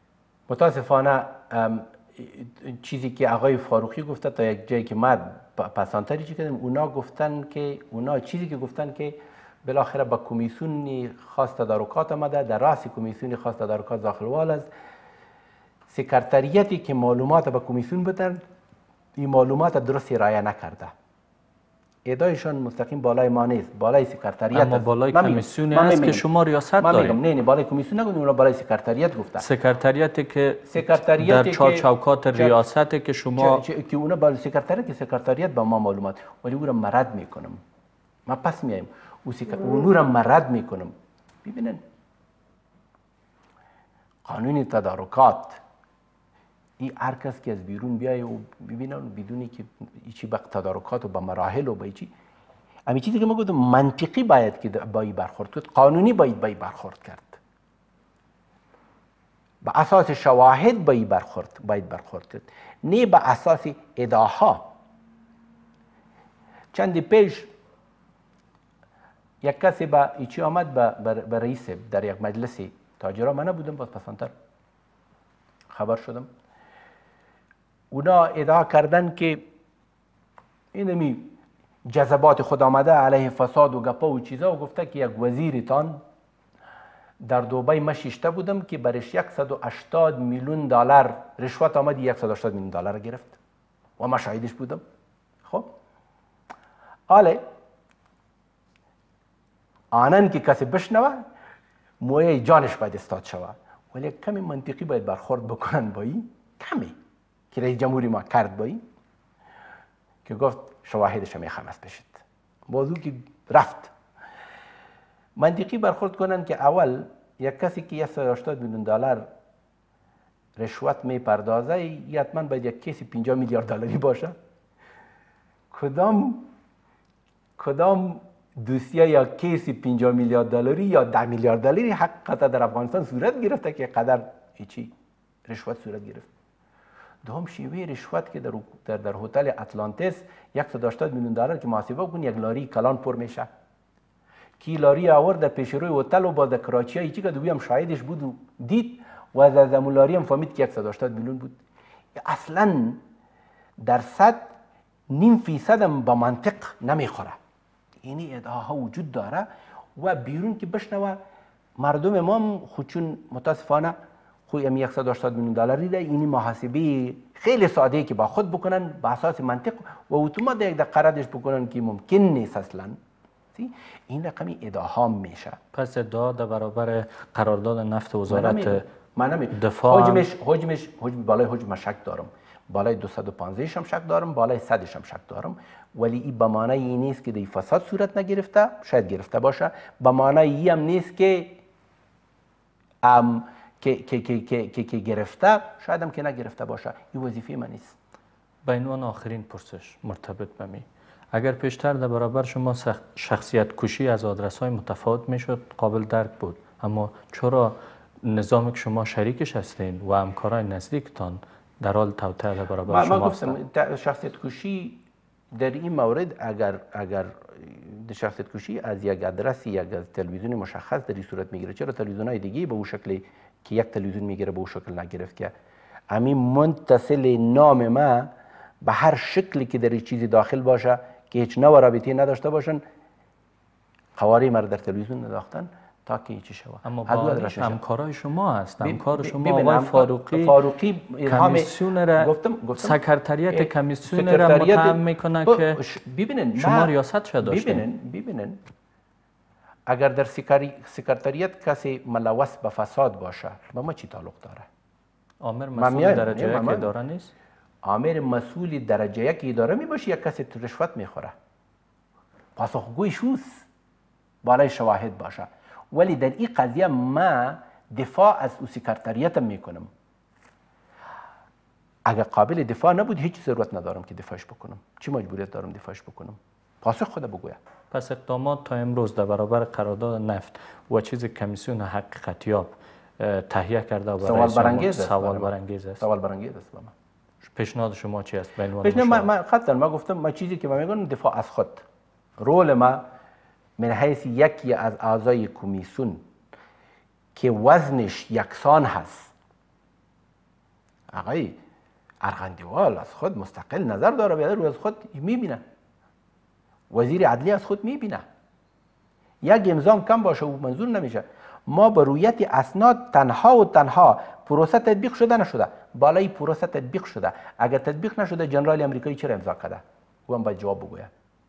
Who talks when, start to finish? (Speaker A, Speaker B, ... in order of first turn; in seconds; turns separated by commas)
Speaker A: 0.5-14.7, Speaker A: 15.9-18.4, Speaker A: 19.2-20.9, Speaker A: 22.0-26.2, Speaker B: 24.5-27.2, Speaker A: 26.8-29.4, Speaker B: 29.4-33.6, Speaker A: 30.7-32.6, Speaker A: 33.4-37.6, Speaker A: 38.3-40.9, Speaker A: 41.4-41.8, Speaker A: 44.2-45.6, Speaker A: 46.8-52.1, Speaker A: 52.9-57.4, Speaker A: 59.6-64.7, Speaker A: 66.7-67.5, Speaker A: 69.4-74.3, Speaker A: 75.7-76.3, Speaker A: 77.9-79.4, Speaker A: 80.7-81.3, Speaker A: 81.8-86.0, Speaker A: 87.2-93.4, Speaker A: 94.0-94.8, Speaker A: 97.1-97.4, Speaker A: 99.9-101.2, Speaker A: 102.0-106.9, Speaker A: 107.5-108.8, Speaker A: 110.2-113.9, Speaker A: 115.4-119.2, Speaker A: 120.6-124.3, Speaker A: 125.7-126.5, Speaker A: 127.6-134.9, Speaker A: 135.5-136.3, Speaker A: 137.2-143.5, Speaker A: 144.6-151.5, Speaker A: 152.2-153.0, Speaker A: 153.8-154.5, Speaker A: 155.1-157.4, Speaker A: 158.0-161.2, Speaker A: 161.8-163.9, Speaker A: 164.5-172.9, Speaker A: 173.5-175.6, Speaker B: 175.7-178.8, Speaker A: 178.3-191.6, Speaker B: 179.5-180.2, Speaker A: 193.0-198.0, Speaker B: 198.6-213.6, Speaker A: 212.9-215.0, Speaker A: 215.5-225.5, Speaker A: 226.1-228.3, Speaker A: 228.8-232.8, Speaker A: 234.2-237.8, Speaker B: 236.8-240.6, Speaker A: 238.8-243.0, Speaker B: 241.2-245.8, Speaker A: 243.5-248.6, Speaker B: 246.6-247.9, Speaker A: 249.9-254.7, Speaker B: 255.4-257.3, Speaker A: 255.8-256.9, Speaker A: 257.8-261.3, Speaker A: 262.6-263.6, Speaker A: 264.4-269.9, Speaker A: 272.1-277.6, Speaker B: 277.9-286.0, Speaker A: 284.2-286.9, Speaker B: 287.4-289.3, Speaker A: 288.8-291.8, Speaker A: 292.4-293.0, Speaker A: 293.8-296.2, Speaker A: 297.3-299.3, Speaker A: 301.1-301.6, Speaker A: 302.2-305.6, Speaker A: 306.9-308.2, Speaker A: 309.4-321.1